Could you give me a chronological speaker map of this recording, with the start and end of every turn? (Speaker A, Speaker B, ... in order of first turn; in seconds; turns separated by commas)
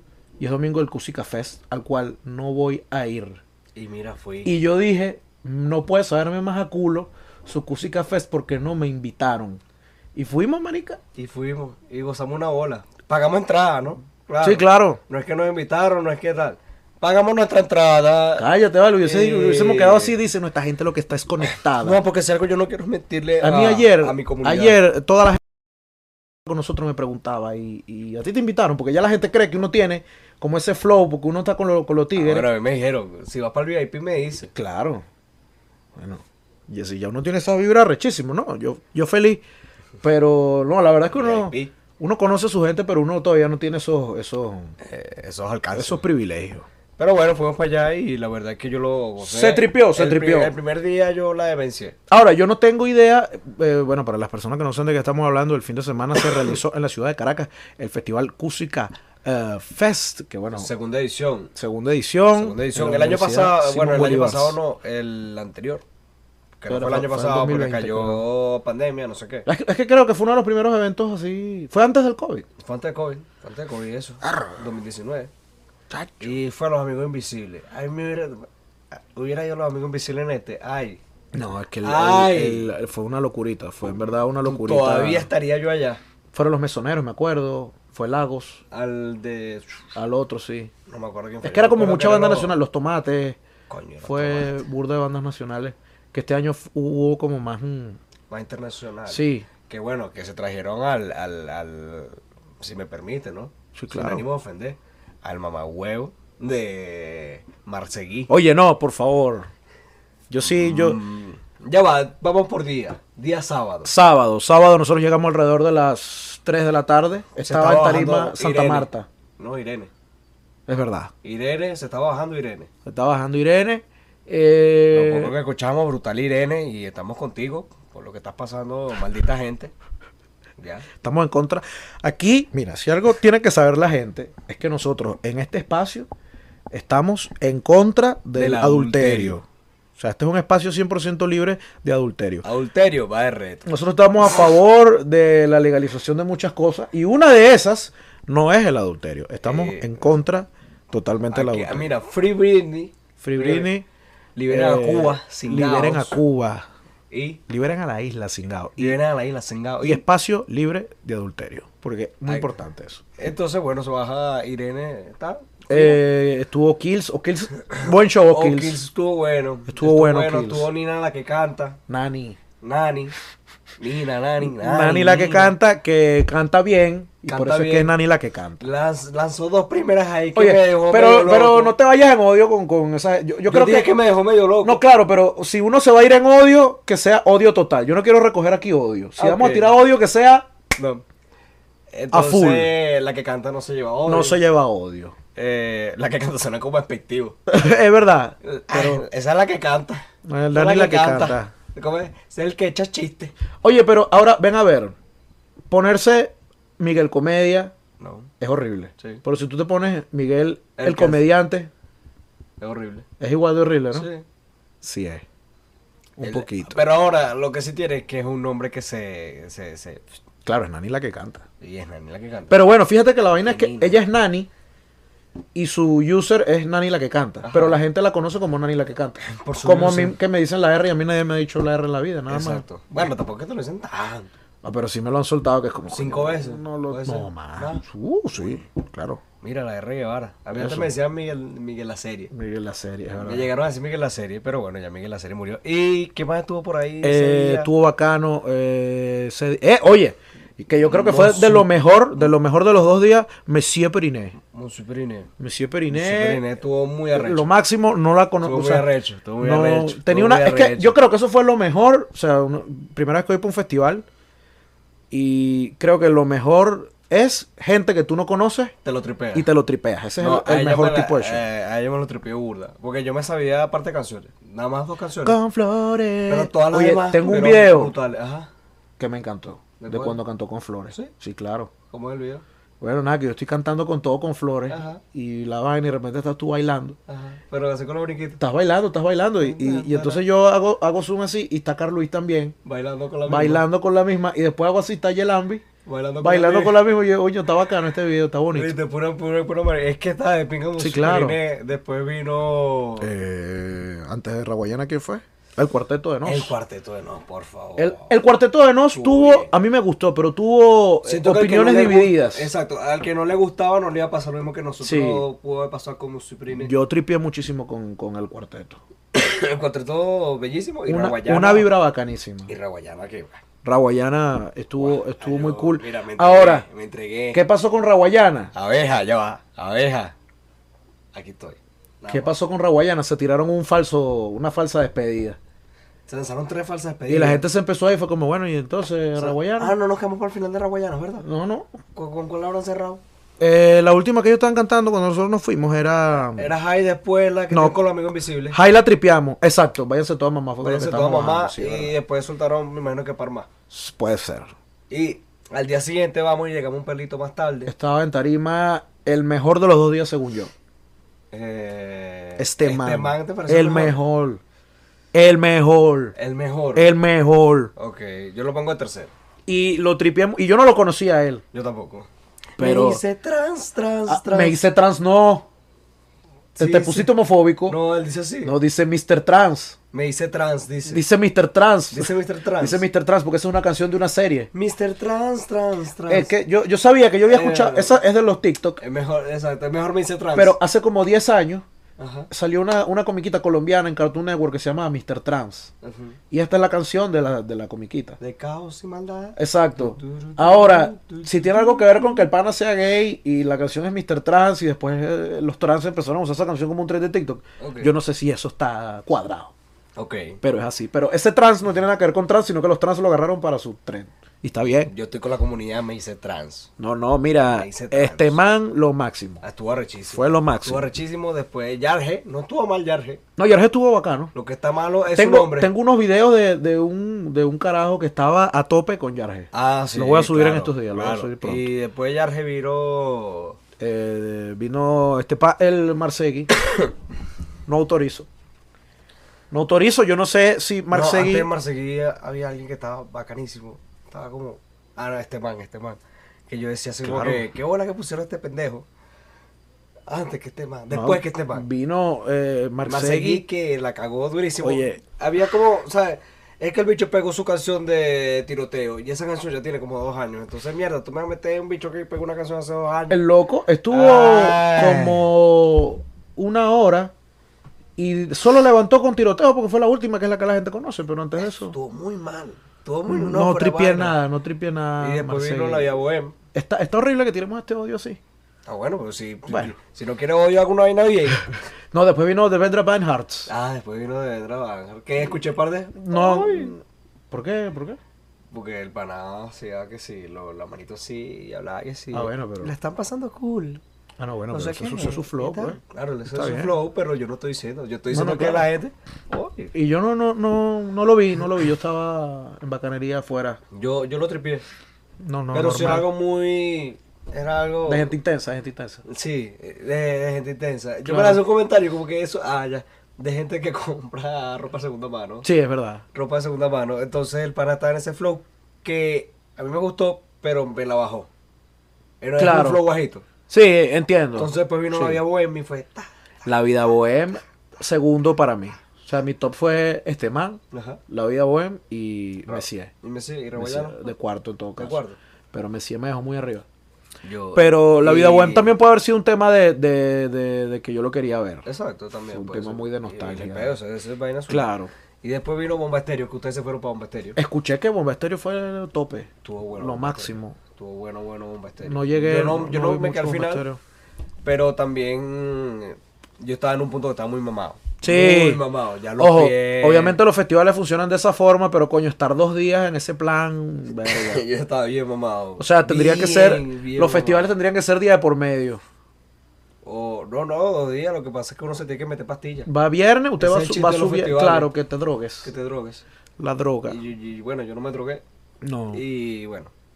Speaker A: 0.4-3.4, Speaker B: 3.8-4.5, Speaker A: 4.4-9.6, Speaker A: 10.1-11.0, Speaker B: 11.2-18.4, Speaker A: 14.4-15.0, Speaker A: 18.4-22.0, Speaker B: 19.0-20.1, Speaker B: 21.5-24.8, Speaker A: 23.4-25.6, Speaker A: 26.4-32.5, Speaker B: 32.1-34.5, Speaker A: 34.5-35.0, Speaker A: 36.0-39.4, Speaker A: 40.0-44.7, Speaker B: 41.1-41.7, Speaker B: 44.8-46.1, Speaker A: 45.7-46.6, Speaker B: 47.0-52.0, Speaker A: 49.2-50.5, Speaker A: 52.1-60.7, Speaker B: 60.5-61.5, Speaker A: 61.5-64.6, Speaker B: 62.3-65.8, Speaker B: 66.6-69.5, Speaker A: 66.7-68.2, Speaker A: 69.5-72.5, Speaker B: 72.6-75.3, Speaker A: 74.2-74.6, Speaker A: 75.9-76.3, Speaker B: 76.2-81.0, Speaker A: 81.3-85.3, Speaker B: 81.8-82.7, Speaker B: 84.4-86.0, Speaker A: 86.3-88.6, Speaker B: 88.7-89.8, Speaker A: 89.9-90.7, Speaker B: 90.9-92.6, Speaker A: 91.4-93.4, Speaker B: 93.7-94.5, Speaker A: 94.0-98.0, Speaker B: 98.3-108.3, Speaker A: 99.1-99.5, Speaker A: 103.7-104.2, Speaker A: 108.3-109.5, Speaker A: 110.3-111.0, Speaker B: 110.4-113.9, Speaker A: 113.8-119.1, Speaker B: 117.4-119.9, Speaker A: 120.7-121.1, Speaker B: 121.2-122.7, Speaker A: 122.8-125.3, Speaker B: 124.9-129.7, Speaker B: 130.6-130.9, Speaker A: 131.0-136.1, Speaker A: 136.7-139.4, Speaker B: 138.3-139.4, Speaker A: 140.0-142.4, Speaker B: 142.4-143.7, Speaker A: 143.6-151.9, Speaker B: 149.4-150.1, Speaker B: 151.3-153.7, Speaker A: 153.2-153.8, Speaker B: 154.3-156.2, Speaker A: 154.5-156.7, Speaker B: 157.1-157.4, Speaker A: 157.5-159.0, Speaker B: 158.8-160.0, Speaker A: 159.8-163.0, Speaker B: 162.3-162.6, Speaker B: 163.2-166.0, Speaker A: 165.7-168.8, Speaker B: 167.8-171.8, Speaker A: 169.7-170.7, Speaker A: 171.9-172.4, Speaker B: 172.6-173.1, Speaker B: 173.8-175.6, Speaker A: 174.4-178.6, Speaker B: 177.2-177.9, Speaker B: 178.6-181.7, Speaker A: 180.3-183.9, Speaker B: 183.5-184.8, Speaker A: 184.6-190.5, Speaker B: 189.2-189.7, Speaker B: 190.8-191.0, Speaker B: 191.9-194.4, Speaker A: 192.1-192.7, Speaker A: 194.1-195.1, Speaker B: 195.3-197.4, Speaker A: 197.5-199.0, Speaker B: 198.4-203.3, Speaker A: 200.2-201.5, Speaker A: 203.6-204.9, Speaker A: 205.7-207.7, Speaker B: 208.0-208.3, Speaker A: 208.4-211.7, Speaker B: 210.8-211.2, Speaker B: 212.6-213.1, Speaker A: 213.2-214.1, Speaker B: 213.9-214.2, Speaker A: 214.8-215.2, Speaker A: 216.2-216.8, Speaker B: 216.2-220.1, Speaker A: 220.4-221.4, Speaker B: 221.6-222.6, Speaker A: 222.5-224.5, Speaker B: 223.4-224.0, Speaker A: 225.5-232.6, Speaker B: 227.4-227.8, Speaker B: 229.2-230.2, Speaker B: 232.3-234.3, Speaker A: 234.6-239.2, Speaker B: 235.9-237.8, Speaker B: 239.4-242.3, Speaker A: 240.5-240.9, Speaker A: 242.3-243.5, Speaker B: 243.2-247.7, Speaker A: 247.0-254.3, Speaker B: 250.8-252.3, Speaker B: 254.4-255.3, Speaker A: 255.4-256.4, Speaker B: 255.9-257.5, Speaker A: 257.1-258.9, Speaker B: 258.4-261.0, Speaker A: 259.4-264.1, Speaker A: 265.1-268.7, Speaker B: 268.8-269.5, Speaker A: 269.3-271.4, Speaker B: 270.2-275.4, Speaker A: 275.2-277.9, Speaker B: 276.3-278.5, Speaker A: 279.0-281.7, Speaker B: 279.8-280.2, Speaker B: 281.9-282.4, Speaker A: 282.8-287.0, Speaker B: 284.7-285.0, Speaker B: 287.1-288.4, Speaker A: 288.4-292.5, Speaker B: 289.4-290.2, Speaker B: 292.6-293.6, Speaker A: 293.2-295.6, Speaker B: 295.9-296.8, Speaker A: 296.2-298.7, Speaker B: 298.5-303.1, Speaker A: 300.8-301.4, Speaker A: 303.0-306.5, Speaker B: 306.2-308.1, Speaker A: 307.8-312.5, Speaker B: 308.9-309.5, Speaker B: 311.0-316.7, Speaker A: 314.8-315.2, Speaker A: 316.5-318.8, Speaker B: 319.1-321.7, Speaker A: 320.9-322.5, Speaker B: 322.5-323.4, Speaker A: 323.6-326.6, Speaker B: 324.8-327.4, Speaker A: 327.3-328.5, Speaker B: 328.5-330.1, Speaker B: 331.1-332.4, Speaker A: 332.1-335.4, Speaker B: 336.1-337.4, Speaker A: 337.1-339.7, Speaker B: 339.2-341.2, Speaker A: 341.2-341.7, Speaker B: 341.9-343.0, Speaker A: 343.4-346.5, Speaker B: 346.3-348.6, Speaker A: 347.5-347.8, Speaker A: 348.5-351.9, Speaker B: 350.6-353.5, Speaker A: 353.7-354.5, Speaker B: 354.9-357.7, Speaker A: 357.7-360.5, Speaker B: 361.3-364.0, Speaker A: 362.4-364.4, Speaker A: 365.1-366.1, Speaker B: 366.1-366.9, Speaker A: 366.7-367.7, Speaker B: 367.8-369.1, Speaker A: 369.5-371.4, Speaker B: 371.5-374.6, Speaker A: 372.6-373.0, Speaker A: 374.1-375.4, Speaker B: 376.6-377.1, Speaker A: 376.6-377.8, Speaker B: 377.7-378.6, Speaker A: 378.4-379.8, Speaker B: 379.9-381.0, Speaker A: 380.9-384.5, Speaker B: 381.9-382.8, Speaker B: 384.5-386.3, Speaker A: 386.1-388.8, Speaker B: 387.2-388.0, Speaker B: 388.8-390.6, Speaker A: 390.3-391.6, Speaker B: 392.0-392.3, Speaker A: 392.3-395.7, Speaker B: 395.8-396.2, Speaker A: 396.3-398.2, Speaker B: 398.2-402.3, Speaker A: 399.4-409.5, Speaker B: 407.6-407.9, Speaker B: 409.9-410.4, Speaker A: 410.4-414.9, Speaker B: 414.9-416.7, Speaker A: 416.8-419.4, Speaker B: 417.5-418.4, Speaker B: 419.4-423.2, Speaker A: 420.1-420.8, Speaker A: 423.4-424.3, Speaker B: 424.3-425.7, Speaker A: 425.1-431.7, Speaker B: 429.5-433.6, Speaker A: 433.8-436.5, Speaker A: 437.7-438.3, Speaker A: 439.5-441.5, Speaker B: 440.9-448.9, Speaker A: 447.0-447.4, Speaker B: 450.1-451.6, Speaker A: 450.9-453.4, Speaker B: 452.8-463.2, Speaker A: 454.6-455.0, Speaker A: 463.1-467.1, Speaker B: 463.9-465.2, Speaker A: 468.0-471.7, Speaker B: 471.4-474.2, Speaker A: 473.1-475.9, Speaker B: 475.0-476.3, Speaker A: 476.5-478.2, Speaker B: 478.6-481.6, Speaker A: 479.5-479.7, Speaker A: 481.9-483.5, Speaker B: 483.5-486.8, Speaker A: 486.0-486.8, Speaker A: 487.3-488.0, Speaker B: 488.5-493.8, Speaker A: 492.1-492.7, Speaker A: 494.2-495.8, Speaker B: 494.5-499.7, Speaker A: 496.3-496.7, Speaker A: 498.1-498.7, Speaker A: 499.7-503.6, Speaker B: 503.7-504.6, Speaker A: 505.2-506.1, Speaker B: 505.5-508.1, Speaker A: 507.9-509.0, Speaker B: 509.0-515.5, Speaker A: 511.0-511.4, Speaker A: 515.4-516.0, Speaker B: 516.1-521.3, Speaker B: 522.2-523.2, Speaker A: 522.4-522.8, Speaker A: 523.5-525.2, Speaker B: 524.4-526.1, Speaker A: 526.4-532.9, Speaker B: 530.7-531.0, Speaker B: 532.5-534.0, Speaker A: 533.5-535.0, Speaker B: 534.8-535.2, Speaker A: 535.5-536.6, Speaker B: 537.2-538.7, Speaker A: 537.5-541.6, Speaker B: 541.6-544.7, Speaker A: 542.3-543.7, Speaker A: 544.5-544.9, Speaker B: 545.2-547.4, Speaker A: 547.4-550.6, Speaker B: 549.4-553.6, Speaker A: 551.8-553.8, Speaker B: 554.4-560.2, Speaker A: 558.0-558.6, Speaker A: 559.2-564.4, Speaker B: 563.9-567.5, Speaker A: 565.6-568.8, Speaker B: 569.8-572.7, Speaker A: 572.7-575.5, Speaker B: 573.4-574.7, Speaker B: 575.4-576.0, Speaker A: 576.4-577.0, Speaker B: 576.9-578.2, Speaker A: 578.6-579.0, Speaker B: 578.9-579.7